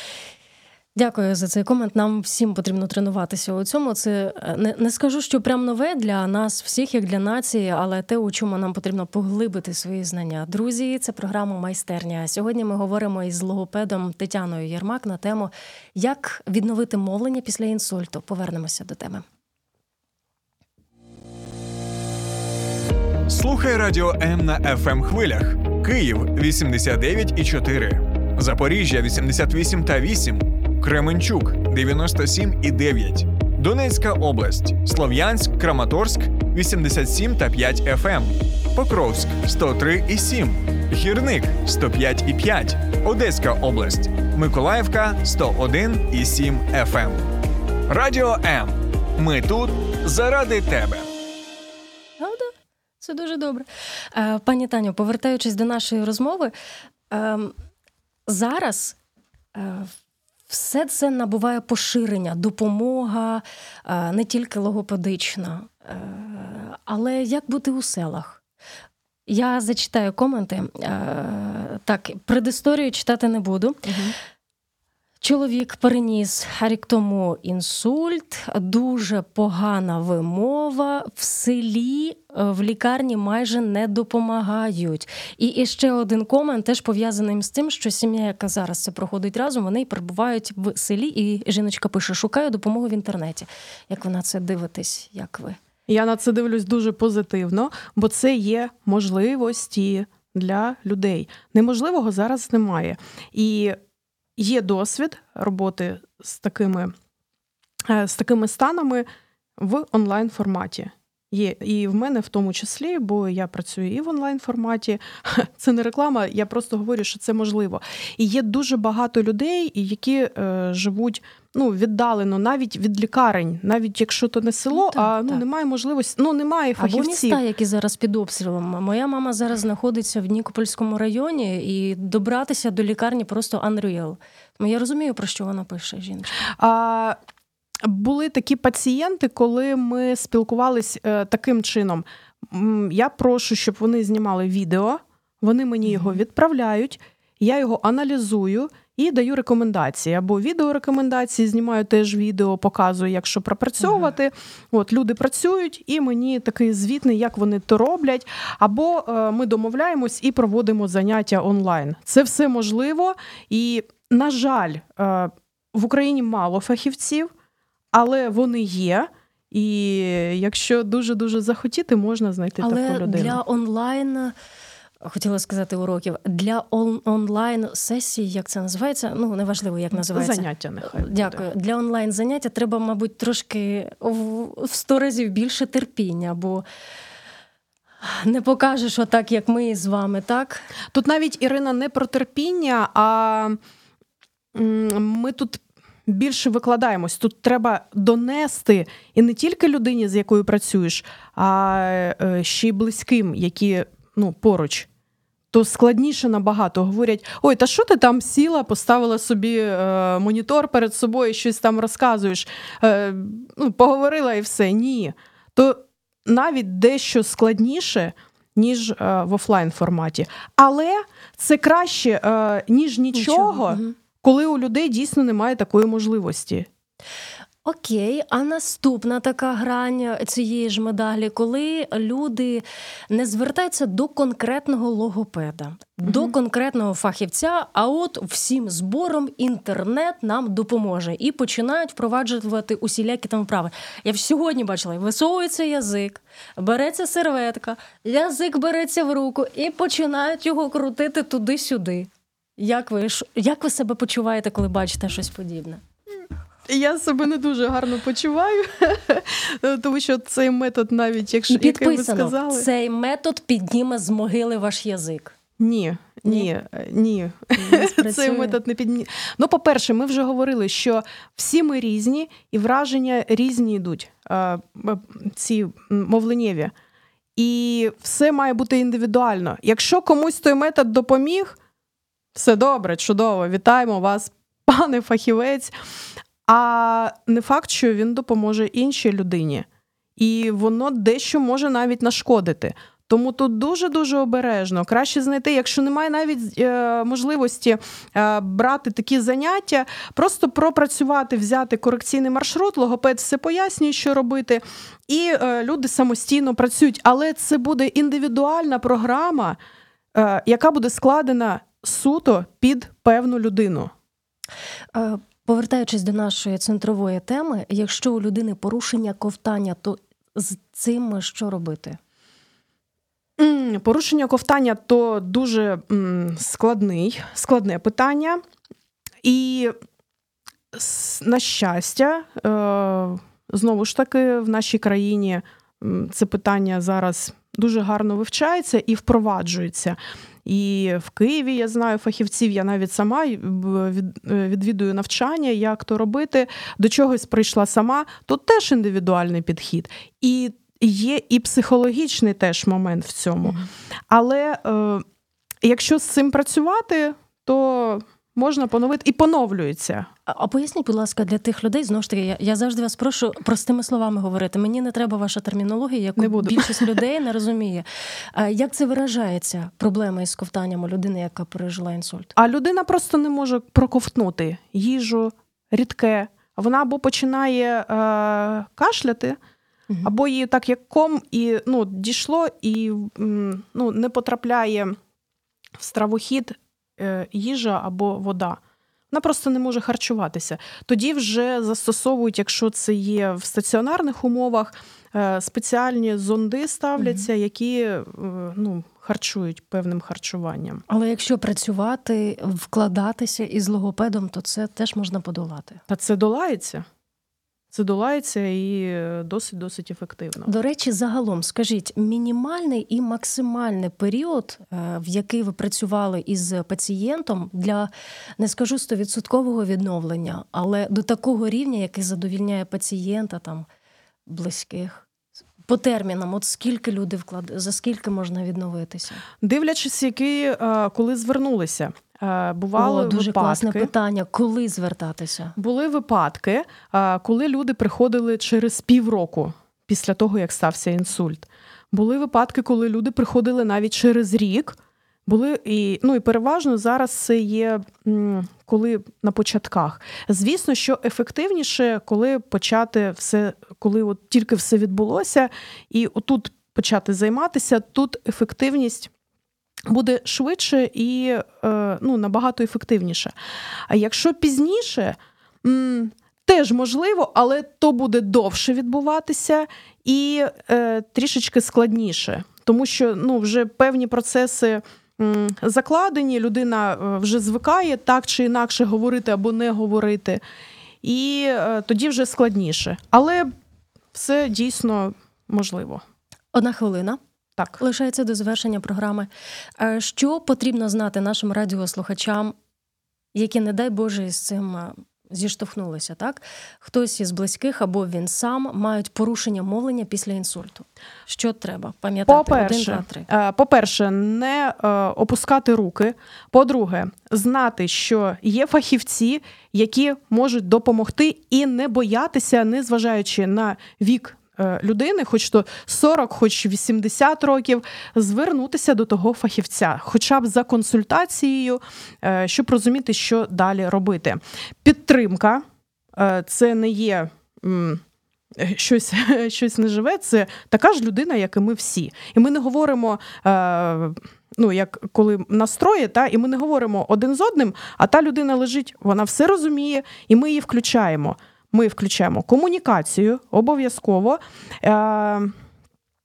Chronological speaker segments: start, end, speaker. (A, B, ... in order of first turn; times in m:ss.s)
0:01.0-0:19.2 A
0:23.3-0:47.3 B
0:47.9-0:51.1 B
0:52.2-0:56.5 A
0:57.1-0:57.6 A
0:58.3-0:59.0 A
0:59.6-0:59.9 A
1:00.5-1:08.4 A
1:09.3-1:13.9 A
1:13.9-1:14.1 C
1:15.2-1:35.6 A
1:35.9-1:43.8 C
1:44.4-1:46.9 C
1:47.9-1:49.1 C
1:49.6-2:07.4 C
2:04.7-2:05.4 A
2:06.8-2:16.4 A
2:16.4-2:17.2 C
2:17.8-2:47.3 C
2:25.9-2:26.2 A
2:33.8-2:34.1 A
2:47.9-2:53.4 C
2:52.6-2:54.4 A
2:55.0-3:06.6 A
2:59.9-3:01.5 C
3:08.0-3:10.6 A
3:10.9-3:13.6 C
3:14.5-3:24.9 C
3:25.5-3:46.7 C
3:43.1-3:44.0 A
3:47.6-4:15.8 A
3:56.0-3:56.3 C
4:16.7-4:22.7 C
4:21.5-4:25.3 A
4:25.6-4:36.7 C
4:27.6-4:28.6 A
4:37.4-4:41.6 C
4:42.4-4:45.7 C
4:46.4-4:49.7 C
4:50.2-5:09.6 C
5:10.2-5:13.9 C
5:14.9-5:22.0 A
5:23.4-5:28.4 C
5:29.2-5:29.7 C
5:30.7-5:55.0 C
5:55.6-6:00.1 C
6:00.3-6:12.3 A
6:06.2-6:07.0 C
6:12.4-6:19.4 C
6:20.0-6:25.0 C
6:25.8-6:28.6 C
6:29.1-6:40.8 C
6:37.0-6:37.3 A
6:40.9-6:45.8 A
6:45.9-6:46.9 C
6:47.7-6:50.5 C
6:50.5-7:03.7 A
7:04.3-7:05.1 A
7:05.7-7:09.2 A
7:09.4-7:13.9 C
7:12.8-7:15.6 A
7:15.6-7:39.1 C
7:39.9-7:43.3 C
7:43.9-8:00.4 C
8:01.0-8:03.5 C
8:04.1-8:06.0 C
8:06.5-8:07.2 A
8:07.8-8:12.6 A
8:13.3-8:23.3 A
8:22.3-8:48.0 C
8:48.6-9:05.6 C